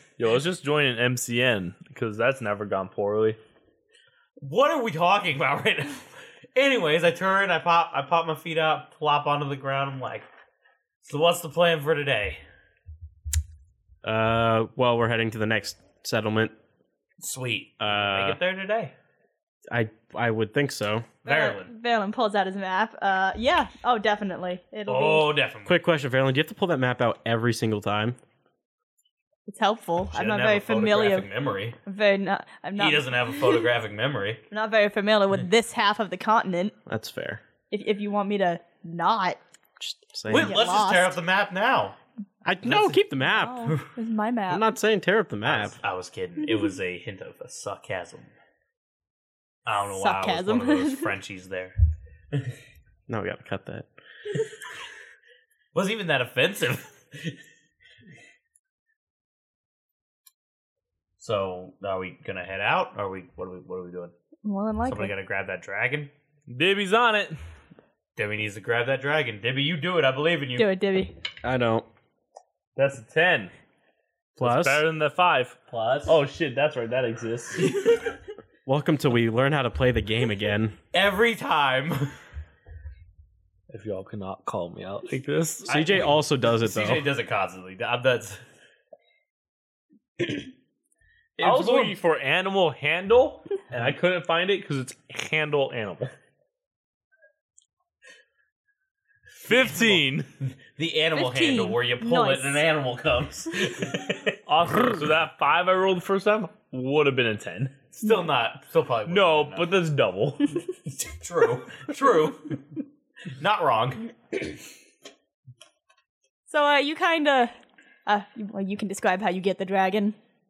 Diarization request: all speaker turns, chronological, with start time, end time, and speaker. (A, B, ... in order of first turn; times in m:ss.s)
0:00.2-0:03.4 A
0:04.4-0:10.3 B
0:11.0-0:12.4 B
0:14.0-0:16.5 C
0:17.2-0:18.9 B
0:17.8-0:18.4 C
0:19.7-0:21.1 C
0:21.2-0:21.7 B
0:21.2-0:25.3 D
0:24.9-0:25.8 B
0:25.6-0:28.2 C
0:29.5-0:31.3 D
0:30.1-0:31.8 B
0:31.9-0:33.0 D
0:32.8-0:34.4 B
0:34.5-0:36.8 D
0:36.9-0:37.4 C
0:37.7-0:39.4 D
0:39.8-0:40.6 C
0:40.3-0:42.0 B
0:40.3-0:41.1 D
0:42.4-0:43.7 C
0:42.6-0:43.0 B
0:43.2-0:44.6 D
0:44.5-0:45.8 C
0:45.5-0:48.3 B
0:49.6-0:51.8 B
0:50.0-0:51.1 D
0:53.1-0:53.9 C
0:55.7-0:57.4 B
1:01.2-1:04.1 B
1:04.4-1:05.1 D
1:04.8-1:06.1 B
1:06.5-1:07.4 A
1:08.2-1:10.7 B
1:10.6-1:11.1 D
1:11.4-1:11.9 C
1:12.8-1:13.5 A
1:14.4-1:14.8 C
1:14.4-1:17.8 A
1:15.7-1:16.2 B
1:17.6-1:18.0 B
1:18.6-1:20.8 C
1:20.9-1:22.1 B
1:23.7-1:26.0 A
1:25.6-1:28.4 B
1:25.7-1:27.1 C
1:31.4-1:32.0 B
1:31.4-1:36.1 A
1:39.4-1:40.3 A
1:39.5-1:45.0 B
1:41.1-1:42.6 D
1:44.5-1:47.8 A
1:47.9-1:49.7 B
1:49.1-1:50.6 A
1:50.9-1:52.6 B
1:53.4-1:54.4 B
1:56.5-1:57.5 D
1:58.1-2:00.2 D